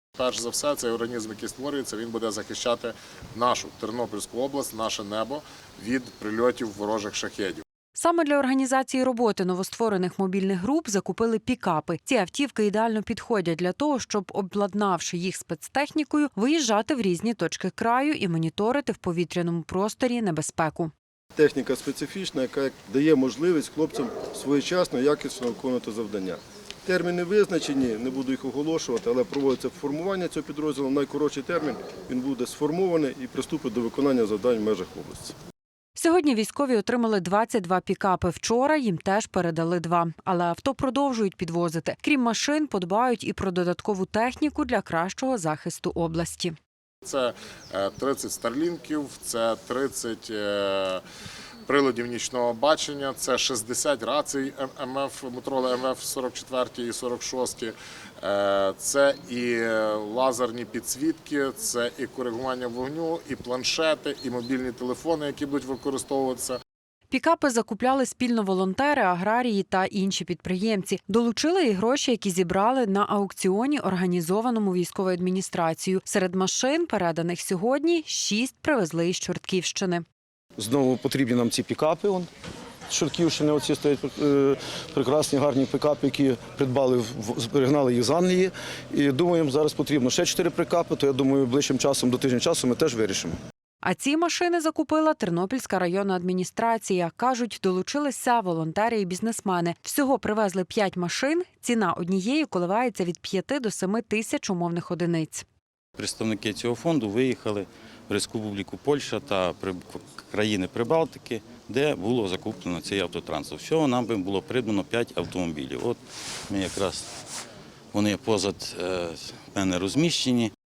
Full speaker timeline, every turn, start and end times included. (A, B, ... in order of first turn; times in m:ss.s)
0:00.2-0:07.6 A
0:07.9-0:20.9 B
0:21.4-0:35.3 C
0:36.0-0:46.6 B
0:47.0-0:51.0 A
0:51.7-1:06.6 A
1:07.1-1:20.0 B
1:20.6-1:22.3 D
1:22.9-1:33.3 D
1:33.8-1:45.4 B
1:46.0-1:57.1 E
1:57.9-2:00.5 E